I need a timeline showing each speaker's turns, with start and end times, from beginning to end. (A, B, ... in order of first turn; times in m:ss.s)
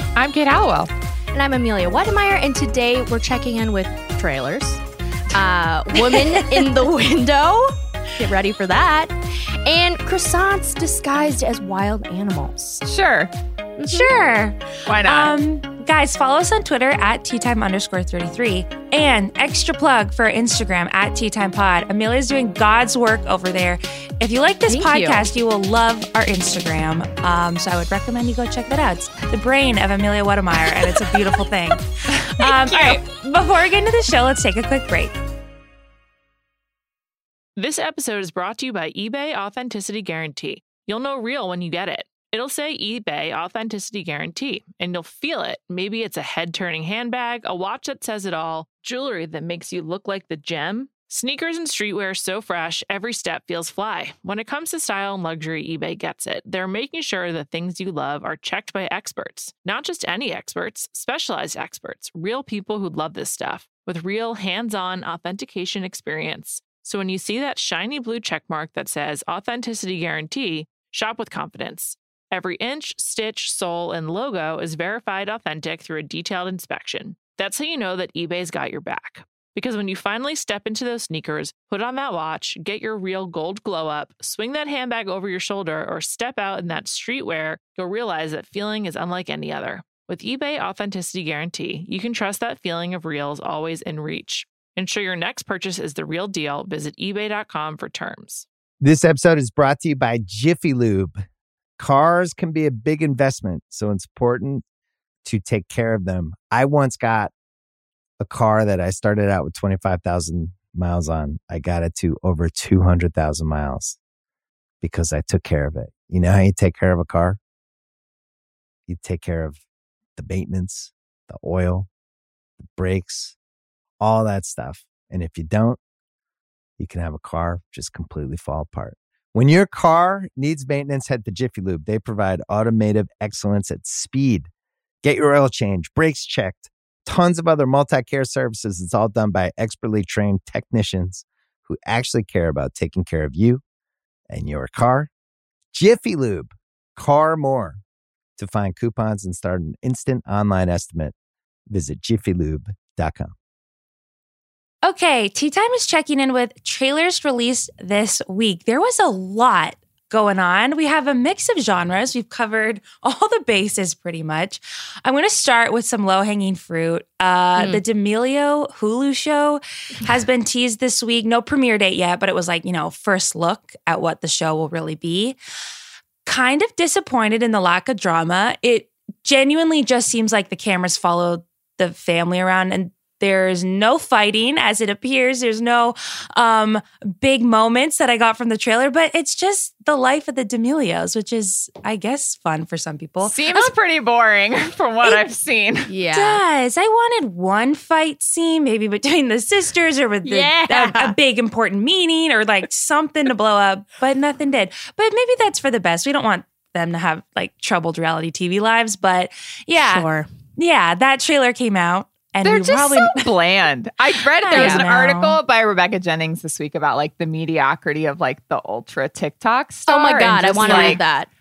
0:00.2-0:00.9 A
0:01.3-0:12.8 B
0:06.1-0:06.6 C
0:12.8-0:13.3 A
0:13.8-0:14.2 B
0:13.9-0:35.1 C
0:14.9-0:15.3 A
0:24.7-0:25.2 B
0:37.6-1:38.5 D
1:38.8-1:41.2 E
1:41.8-1:44.6 E
1:45.2-1:47.3 E
1:48.2-1:54.0 E
1:54.8-1:57.4 E
1:58.9-1:59.6 E
2:00.2-2:01.9 E
2:02.6-2:03.4 E
2:04.0-2:05.8 E
2:06.8-2:14.5 E
2:15.0-2:23.6 E
2:24.3-2:25.1 E
2:25.7-2:27.8 E
2:28.4-2:31.1 E
2:31.7-2:33.3 E
2:34.8-2:55.4 C
2:47.6-2:47.8 B
2:56.2-3:13.7 C
3:13.2-3:15.9 A
3:15.9-3:16.4 B
3:16.1-3:30.1 C
3:20.2-3:21.1 B
3:29.8-3:30.3 B
3:30.6-3:33.3 C
3:32.4-3:41.0 A
3:34.4-3:35.4 C
3:34.5-3:34.9 B
3:39.9-3:41.3 B
3:40.6-3:41.0 C